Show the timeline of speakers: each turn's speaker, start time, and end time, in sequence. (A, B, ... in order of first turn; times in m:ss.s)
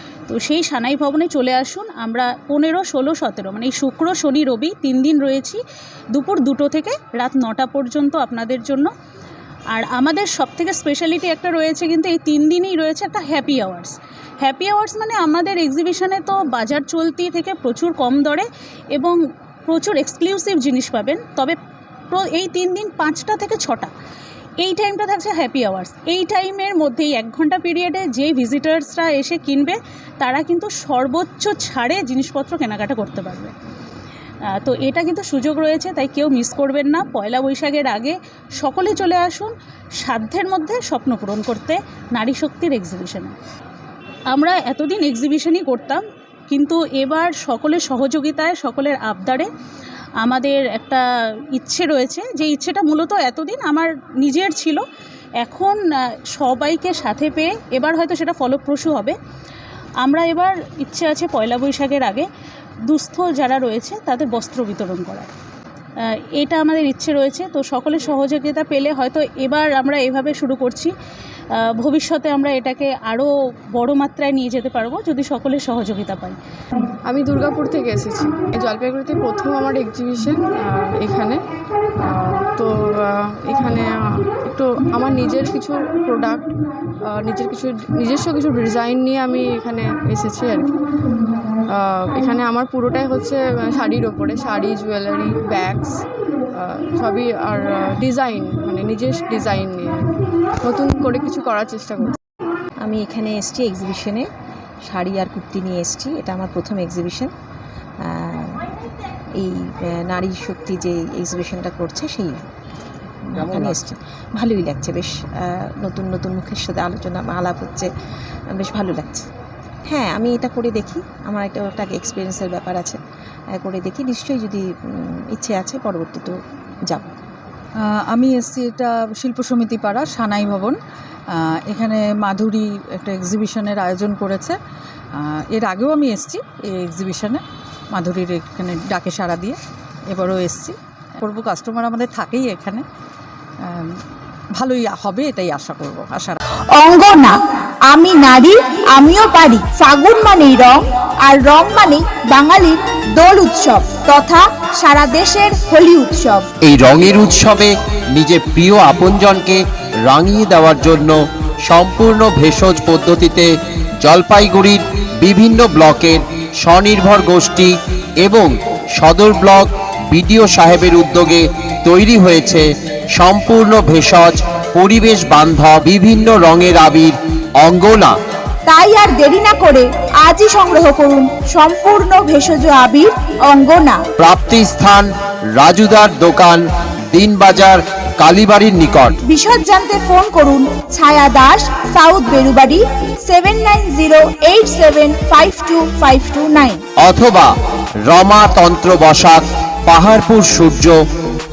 0:00.3-0:05.6 A
0:06.1-0:08.9 A
0:09.7-0:21.6 A
0:22.1-0:23.9 A
0:24.6-0:33.5 A
0:34.5-0:43.3 A
0:44.3-0:49.5 A
0:50.2-0:54.8 A
0:55.4-0:59.2 A
1:00.0-1:02.3 A
1:02.9-1:05.3 A
1:06.0-1:10.9 A
1:11.6-1:16.4 A
1:17.0-1:21.4 B
1:22.1-1:26.5 B
1:27.1-1:30.8 B
1:31.7-1:35.9 B
1:36.6-1:39.9 B
1:40.6-1:42.2 B
1:42.8-1:44.2 C
1:44.9-1:47.3 C
1:48.0-1:48.7 C
1:49.4-1:52.4 C
1:53.3-1:57.9 C
1:58.5-1:59.3 C
1:59.9-2:03.0 C
2:03.6-2:06.4 C
2:08.1-2:10.8 D
2:11.4-2:14.6 D
2:15.2-2:22.8 D
2:24.6-2:26.4 D
2:26.8-2:27.4 E
2:27.9-2:36.5 E
2:36.6-2:41.2 F
2:41.7-2:43.5 F
2:44.0-2:58.1 F
2:58.6-3:04.0 E
3:04.2-3:06.6 F
3:07.1-3:09.2 F
3:09.2-3:16.8 E
3:17.0-3:17.5 F
3:18.1-3:21.0 F